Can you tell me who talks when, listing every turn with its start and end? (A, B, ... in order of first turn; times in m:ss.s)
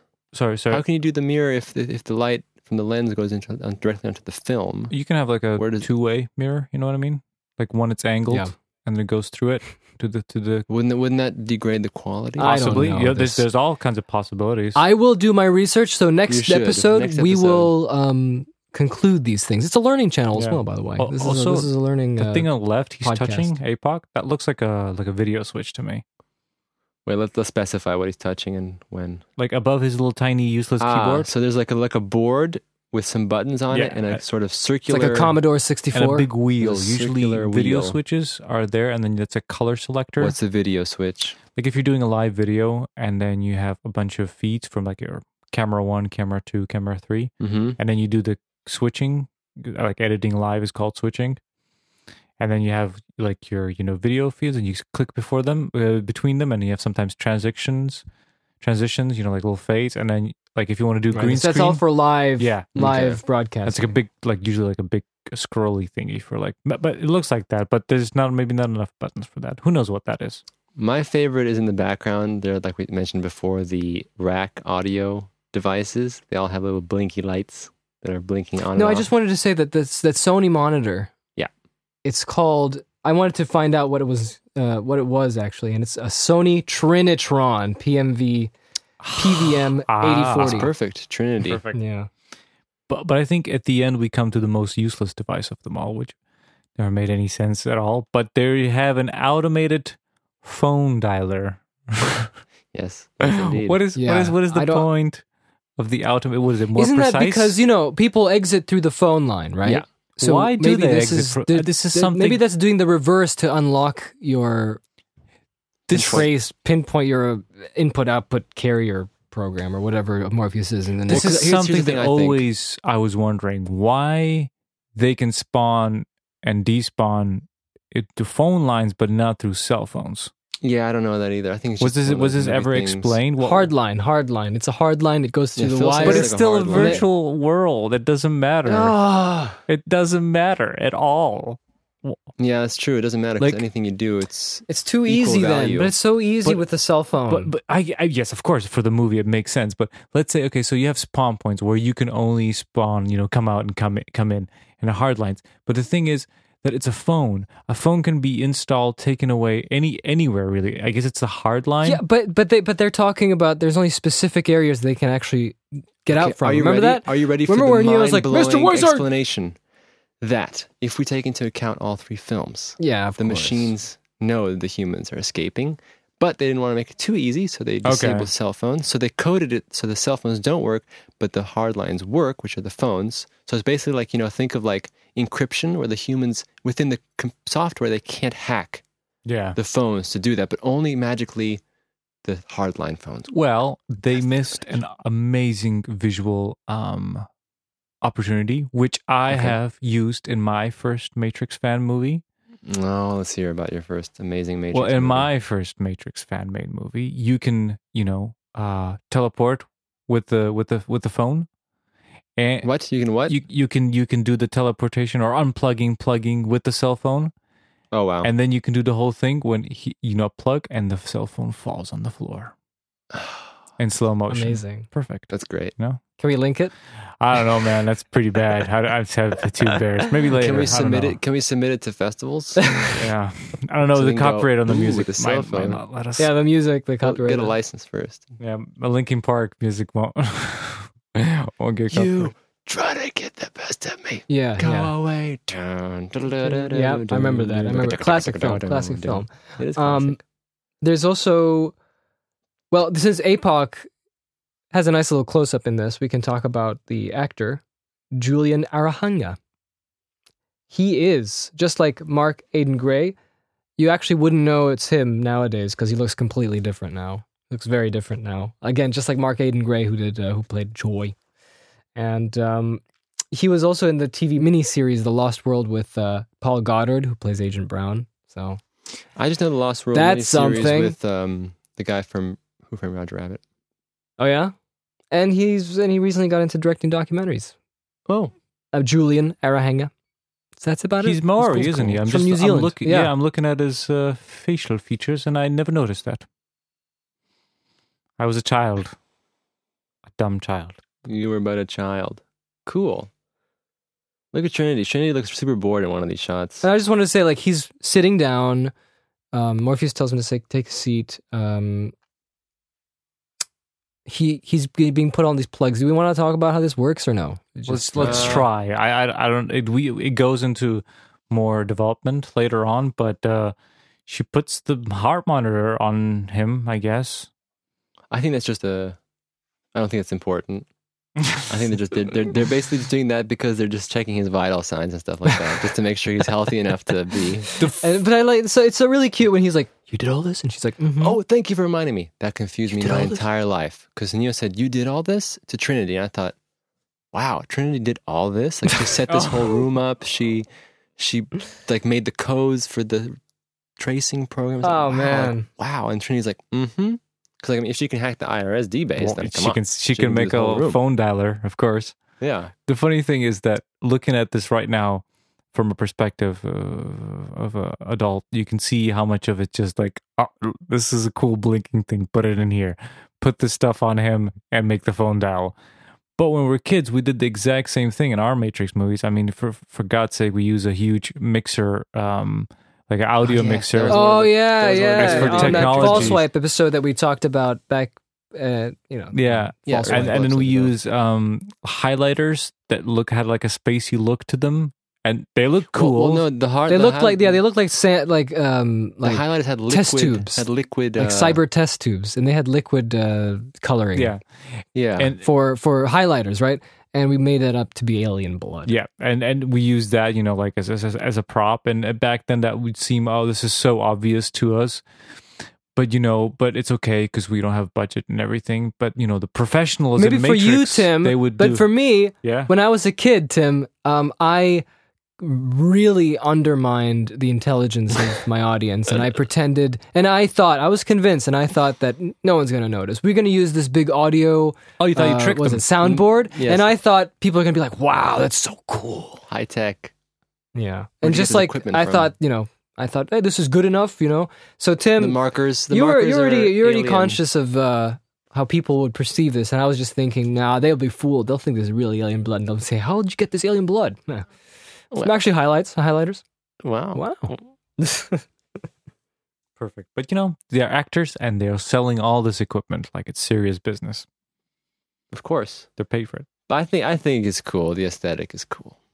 0:00.3-0:00.8 A
0:00.7-0:04.9 B
0:04.9-0:10.6 A
0:05.6-0:05.9 B
0:10.7-0:12.5 B
0:12.4-0:13.4 C
0:12.4-0:14.8 A
0:14.8-0:22.5 C
0:16.3-0:17.7 B
0:20.4-0:26.0 A
0:23.0-0:23.5 C
0:27.1-0:29.2 B
0:29.4-0:31.3 A
0:30.8-0:35.4 B
0:33.7-0:34.2 A
0:34.9-0:36.3 C
0:35.9-0:40.4 A
0:36.6-0:38.0 B
0:40.2-0:41.4 B
0:41.6-0:51.4 A
0:47.4-0:47.8 B
0:52.4-0:58.0 A
0:58.6-1:01.8 A
1:01.1-1:03.9 C
1:02.4-1:02.8 A
1:02.8-1:03.2 B
1:03.6-1:10.4 A
1:10.8-1:19.1 B
1:18.8-1:21.1 C
1:22.0-1:28.5 C
1:29.0-1:30.7 A
1:29.2-1:30.7 C
1:30.4-1:31.6 B
1:31.4-1:31.8 A
1:31.7-1:32.1 C
1:32.9-1:36.1 A
1:36.8-1:42.3 A
1:42.7-1:43.8 B
1:43.2-1:45.2 A
1:43.9-1:44.9 C
1:45.8-1:47.6 A
1:46.8-1:54.8 C
1:50.2-1:52.4 A
1:55.9-1:56.3 A
1:55.9-1:56.3 B
1:55.9-2:01.3 C
2:01.1-2:02.4 B
2:01.1-2:10.3 A
2:10.6-2:13.2 B
2:11.8-2:13.7 A
2:13.4-2:17.0 C
2:15.6-2:17.1 B
2:16.0-2:19.0 A
2:18.6-2:19.6 C
2:19.7-2:22.2 A
2:22.4-2:25.9 B
2:24.7-2:27.5 C
2:27.3-2:42.0 A
2:41.8-2:49.1 C
2:46.1-2:49.6 B
2:50.2-3:08.8 B
2:52.8-2:53.7 C
2:57.8-2:58.3 A
3:09.3-3:09.6 A
3:09.6-3:11.6 B
3:12.2-3:13.3 B
3:13.3-3:17.3 A
3:18.0-3:22.2 A
3:19.3-3:19.6 B
3:22.6-3:25.3 B
3:24.7-3:31.5 A
3:32.4-3:32.7 A
3:32.6-3:33.4 B
3:33.3-3:37.3 A
3:37.9-3:38.3 B
3:38.2-3:42.5 A
3:43.1-3:43.4 B
3:43.8-3:46.0 A
3:44.3-3:44.9 C
3:45.3-3:45.7 B
3:46.2-3:46.7 C
3:47.2-3:51.2 A
3:50.3-3:52.7 B
3:52.6-3:53.0 C
3:52.9-3:56.3 A
3:53.9-3:55.8 B
3:56.2-3:57.5 C
3:57.0-3:58.3 B
3:58.4-4:02.3 A
4:01.9-4:10.2 B
4:04.3-4:04.9 C
4:06.4-4:10.2 C
4:10.8-4:11.8 C
4:12.7-4:13.9 C
4:14.7-4:19.4 C
4:20.7-4:23.2 C
4:23.8-4:31.1 C
4:31.9-4:38.6 C
4:39.2-4:43.4 B
4:39.9-4:41.0 C
4:44.2-4:44.5 C
4:45.1-4:47.5 C
4:48.1-4:48.3 B
4:48.7-4:49.9 C
4:50.6-4:53.1 C
4:51.0-4:56.2 A
4:58.2-4:58.9 A
5:00.1-5:00.8 A
5:01.0-5:03.1 B
5:04.3-5:06.6 B
5:06.6-5:08.7 C
5:09.3-5:11.9 C
5:14.1-5:18.4 C
5:17.7-5:23.5 A
5:18.0-5:18.5 B
5:24.1-5:27.3 A
5:28.1-5:29.0 B
5:29.7-5:30.7 B
5:31.4-5:37.5 B
5:37.6-5:41.2 C
5:41.0-5:46.4 B
5:42.7-5:43.2 C
5:47.1-5:53.2 B
5:53.8-6:00.8 B
5:54.6-5:55.5 C
5:59.0-6:01.9 A
6:02.2-6:02.5 B
6:02.6-6:15.6 A
6:16.2-6:24.0 A
6:23.2-6:26.2 B
6:23.9-6:30.2 C
6:25.0-6:26.2 A
6:29.1-6:36.2 A
6:29.7-6:30.7 B
6:35.7-6:37.4 B
6:36.7-6:40.4 C
6:39.0-6:41.4 B
6:41.0-6:44.1 C
6:43.9-6:44.2 A
6:44.8-6:45.1 B
6:45.0-6:45.2 A
6:45.2-6:48.7 C
6:48.7-6:54.8 A
6:55.8-7:01.6 A
7:00.0-7:04.6 C
7:02.2-7:02.5 A
7:05.2-7:19.2 C
7:14.8-7:15.7 A
7:15.8-7:16.7 B
7:19.3-7:19.9 B
7:20.6-7:25.2 C
7:21.0-7:22.1 B
7:25.0-7:27.2 B
7:25.7-7:34.3 C
7:35.0-7:36.2 C
7:36.6-7:37.4 B
7:36.9-7:38.2 C
7:39.6-7:44.1 A
7:45.1-7:45.7 B
7:45.8-7:46.3 A
7:46.5-7:48.8 B